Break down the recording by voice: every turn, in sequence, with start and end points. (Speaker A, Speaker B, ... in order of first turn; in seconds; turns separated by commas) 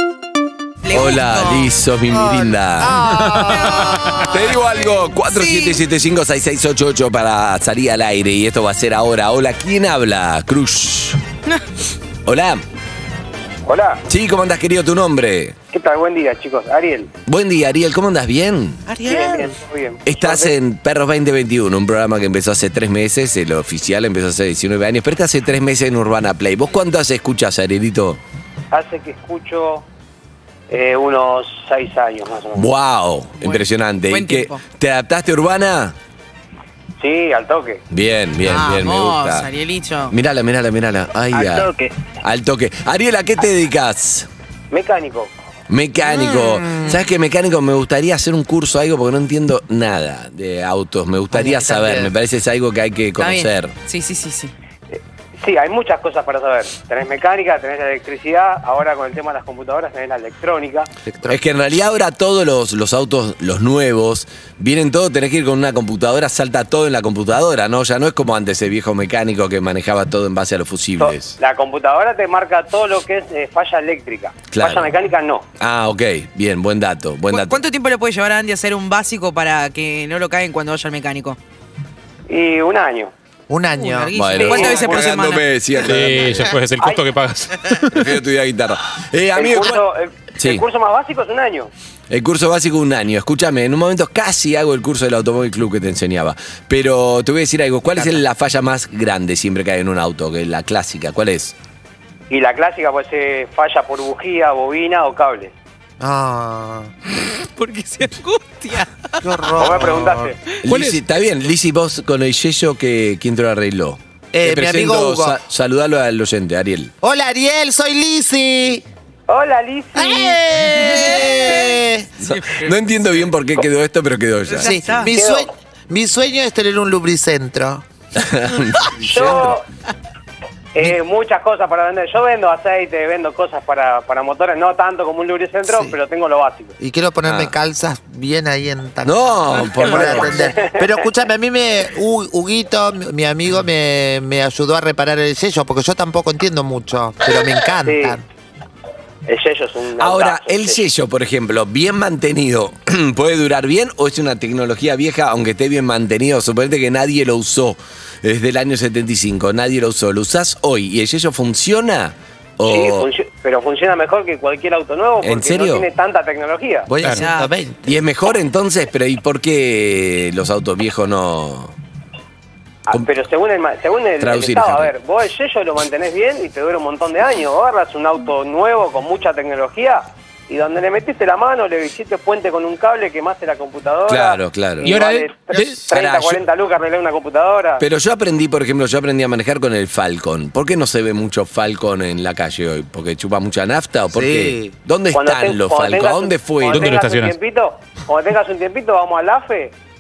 Speaker A: 0.8-1.7, Speaker B: 0.9-3.0, Speaker C: 2.1-4.5, Speaker D: 3.1-4.3, Speaker B: 4.3-11.2, Speaker A: 5.3-5.8, Speaker B: 12.2-12.7, Speaker E: 13.7-14.0, Speaker B: 14.1-15.6, Speaker E: 15.7-17.1, Speaker B: 17.3-18.9, Speaker C: 18.9-19.5, Speaker E: 19.0-20.5, Speaker B: 20.1-28.2, Speaker E: 28.7-29.9, Speaker E: 30.7-32.7, Speaker B: 32.6-36.0, Speaker A: 33.4-34.6, Speaker E: 37.0-37.8, Speaker B: 37.9-39.5, Speaker A: 38.4-40.1, Speaker B: 40.1-41.7, Speaker A: 41.4-41.9, Speaker B: 42.2-44.3, Speaker E: 44.7-45.3, Speaker B: 45.7-53.7, Speaker C: 46.4-46.9, Speaker C: 51.3-52.1, Speaker A: 53.2-54.5, Speaker E: 54.9-60.9, Speaker C: 61.0-61.4, Speaker B: 61.3-71.4, Speaker E: 71.0-75.5, Speaker B: 74.5-74.9, Speaker B: 75.6-77.6, Speaker A: 77.3-81.4, Speaker E: 82.3-83.1, Speaker C: 83.5-84.2, Speaker A: 83.8-85.5, Speaker B: 84.2-86.5, Speaker E: 84.3-85.2, Speaker D: 85.9-88.2, Speaker E: 86.8-87.1, Speaker B: 87.9-89.8, Speaker E: 89.3-91.7, Speaker B: 92.1-101.5, Speaker E: 102.3-105.5, Speaker C: 106.0-106.9, Speaker A: 107.4-109.7, Speaker C: 109.2-110.3, Speaker E: 109.6-110.4, Speaker B: 110.7-116.9, Speaker D: 110.7-111.0, Speaker C: 114.3-115.4, Speaker C: 117.0-118.8, Speaker E: 119.3-120.4, Speaker C: 120.0-122.1, Speaker A: 120.8-121.7, Speaker B: 122.2-124.8, Speaker A: 122.2-122.8, Speaker A: 124.5-125.1, Speaker C: 124.6-127.8, Speaker E: 125.1-125.5, Speaker B: 128.2-129.6, Speaker E: 129.0-129.6, Speaker E: 130.7-136.8, Speaker C: 135.7-135.9, Speaker C: 136.8-148.2, Speaker B: 137.2-137.5, Speaker B: 139.1-140.4, Speaker E: 139.8-141.1, Speaker E: 147.8-148.2, Speaker E: 149.3-150.8, Speaker B: 150.0-163.1, Speaker E: 162.7-166.9, Speaker B: 165.2-165.8, Speaker C: 166.9-167.8, Speaker A: 167.1-167.5, Speaker B: 167.8-171.8, Speaker E: 172.9-187.8, Speaker B: 174.2-174.9, Speaker B: 184.1-184.9, Speaker D: 184.8-185.8, Speaker B: 185.8-186.4, Speaker B: 187.8-196.9, Speaker C: 194.1-194.7, Speaker E: 195.1-199.7, Speaker D: 196.7-197.3